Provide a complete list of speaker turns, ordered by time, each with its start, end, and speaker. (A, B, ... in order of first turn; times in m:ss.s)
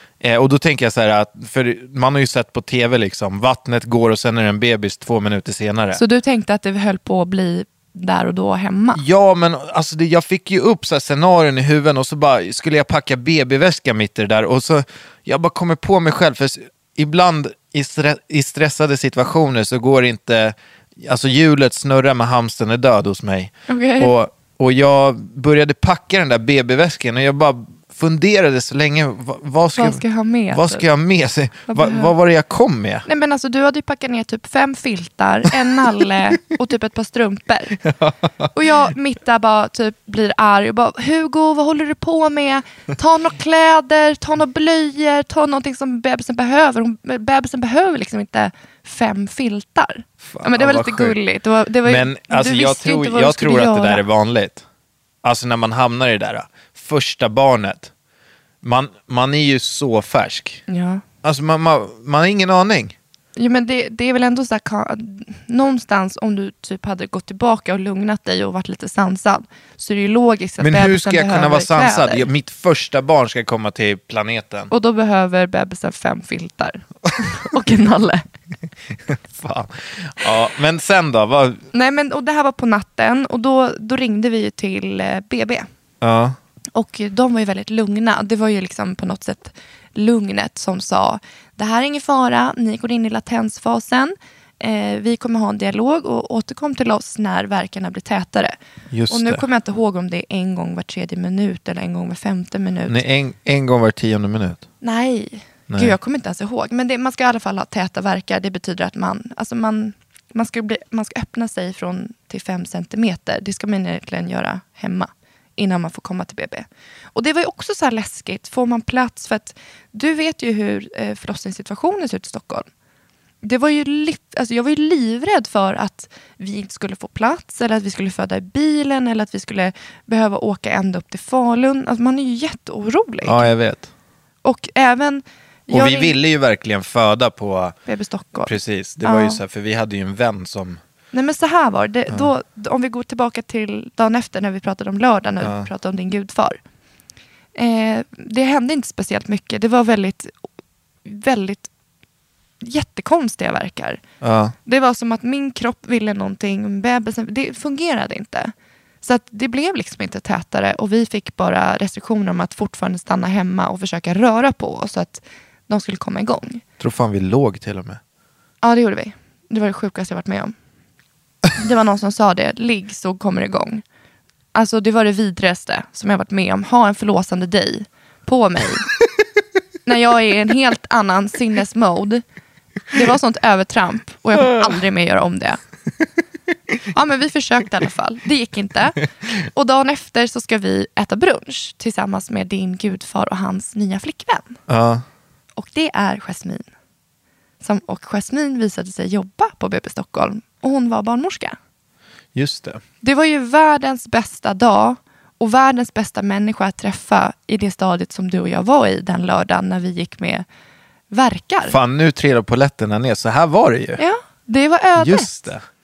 0:00.2-0:06.0 A
0:06.0-0:09.0 B
0:09.0-0:33.1 A
0:23.7-0:24.1 B
0:29.8-0:30.8 B
0:31.7-0:32.1 B
0:33.1-0:37.8 B
0:37.8-0:38.5 A
0:38.6-0:54.0 B
0:50.2-0:51.2 A
0:51.8-0:54.6 A
0:55.2-0:57.9 A
0:58.6-1:00.6 A
1:00.7-1:01.0 B
1:01.2-1:03.0 A
1:03.4-1:12.3 B
1:10.6-1:14.7 A
1:14.7-1:18.2 B
1:19.1-1:21.6 A
1:21.7-1:25.7 B
1:26.0-1:26.4 A
1:26.8-1:38.6 B
1:38.9-1:39.4 A
1:39.1-1:43.0 B
1:42.9-1:44.6 A
1:44.8-2:02.7 B
1:45.7-1:46.0 A
2:03.4-2:13.5 B
2:13.2-2:13.9 A
2:14.4-2:16.2 B
2:15.7-2:17.8 A
2:17.9-2:19.4 B
2:18.4-2:20.8 A
2:21.1-2:26.6 B
2:25.4-2:25.7 A
2:27.6-2:30.3 B
2:31.0-2:31.7 B
2:32.6-2:34.0 B
2:34.2-2:34.6 A
2:34.7-2:46.6 B
2:46.8-2:48.0 A
2:48.6-2:50.5 B
2:51.5-2:53.8 B
2:54.5-2:58.9 B
2:59.9-3:02.2 B
3:02.9-3:05.6 B
3:06.9-3:14.6 B
3:14.7-3:15.0 A
3:15.6-3:16.6 B
3:17.6-3:21.6 B
3:22.4-3:22.8 A
3:23.0-3:30.4 B
3:31.1-3:31.8 B
3:31.7-3:34.0 A
3:34.0-3:35.4 B
3:35.0-3:35.6 A